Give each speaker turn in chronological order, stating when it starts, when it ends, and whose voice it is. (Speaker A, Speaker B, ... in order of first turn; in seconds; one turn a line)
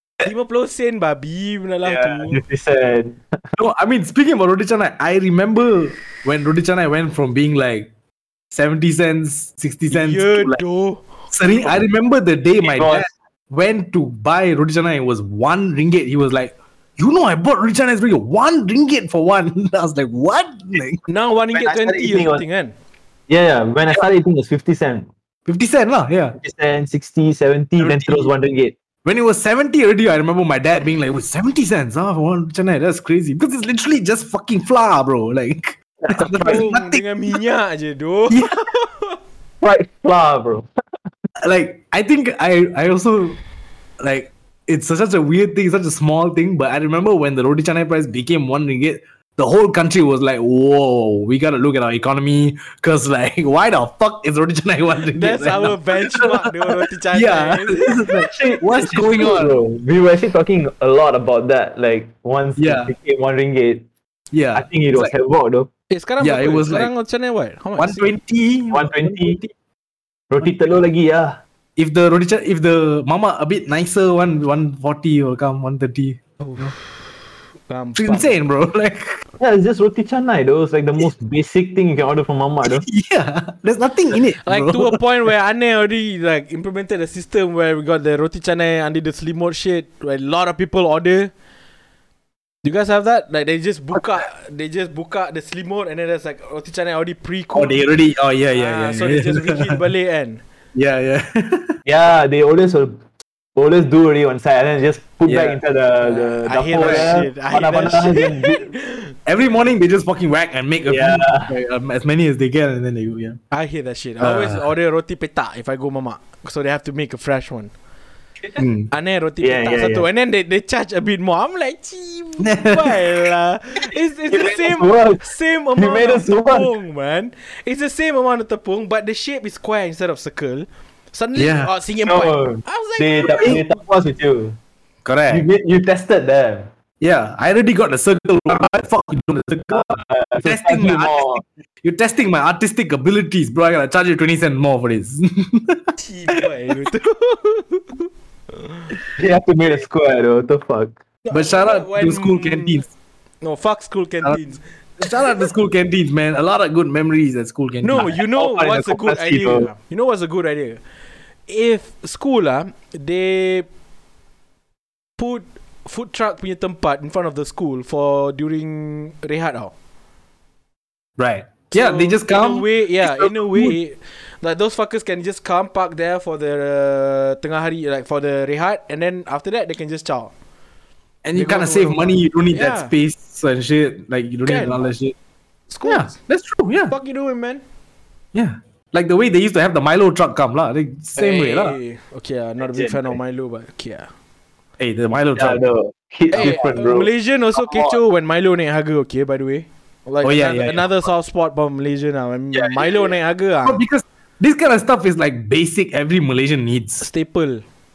Speaker A: 0.2-2.4
Speaker B: 1.8-3.5
Speaker C: 3.6-7.9
Speaker C: 8.5-10.6
Speaker A: 9.9-11.7
Speaker C: 11.3-21.0
Speaker B: 12.6-13.1
Speaker A: 21.1-22.7
Speaker B: 21.5-22.4
Speaker B: 23.3-25.1
Speaker C: 25.4-26.4
Speaker B: 26.4-28.7
Speaker C: 27.8-28.3
Speaker C: 29.0-37.3
Speaker B: 36.1-36.7
Speaker A: 36.4-39.2
Speaker C: 38.3-38.7
Speaker B: 39.6-40.7
Speaker C: 41.4-43.4
Speaker C: 44.0-59.6
Speaker A: 55.1-58.1
Speaker B: 58.2-63.9
Speaker C: 62.6-62.9
Speaker C: 64.3-65.1
Speaker B: 64.5-65.7
Speaker A: 65.9-68.1
Speaker C: 66.2-66.9
Speaker C: 67.8-69.5
Speaker B: 68.7-69.4
Speaker B: 70.3-71.4
Speaker C: 71.8-76.7
Speaker A: 76.4-76.8
Speaker A: 77.7-78.3
Speaker C: 78.0-79.2
Speaker B: 79.4-82.9
Speaker C: 82.6-85.0
Speaker A: 84.4-91.3
Speaker A: 92.6-97.8
Speaker C: 97.5-99.8
Speaker A: 98.5-100.4
Speaker C: 100.7-101.8
Speaker B: 101.8-103.0
Speaker B: 103.5-108.6
Speaker C: 105.2-105.6
Speaker A: 106.0-109.1
Speaker C: 106.8-107.2
Speaker C: 109.2-113.4
Speaker B: 110.9-111.5
Speaker A: 113.5-117.7
Speaker C: 114.2-114.6
Speaker C: 118.6-118.9
Speaker A: 118.9-133.6
Speaker B: 119.4-120.1
Speaker C: 122.4-123.3
Speaker B: 124.3-126.7
Speaker C: 131.3-131.7
Speaker B: 132.1-134.6
Speaker C: 133.3-133.6
Speaker C: 135.0-135.4
Speaker B: 135.3-136.7
Speaker C: 137.0-139.9
Speaker B: 139.7-141.4
Speaker C: 140.4-145.9
Speaker A: 146.0-148.1
Speaker B: 149.2-151.0
Speaker A: 151.2-152.8
Speaker C: 151.3-152.9
Speaker A: 153.4-155.1
Speaker C: 155.0-159.0
Speaker A: 157.8-160.8
Speaker B: 157.9-159.7
Speaker A: 161.5-163.7
Speaker A: 165.2-169.7
Speaker C: 171.2-173.8
Speaker A: 171.7-180.3
Speaker C: 181.2-185.1
Speaker A: 181.3-182.9
Speaker A: 184.4-184.9
Speaker A: 185.7-186.1
Speaker C: 185.8-186.9
Speaker A: 186.9-187.6
Speaker C: 188.3-191.8
Speaker A: 191.2-194.1
Speaker B: 192.6-193.1
Speaker C: 194.8-195.7
Speaker B: 195.3-197.1
Speaker A: 196.3-203.8
Speaker C: 197.6-198.0
Speaker C: 200.2-201.1
Speaker C: 202.5-202.9
Speaker C: 203.6-207.1
Speaker A: 207.0-207.6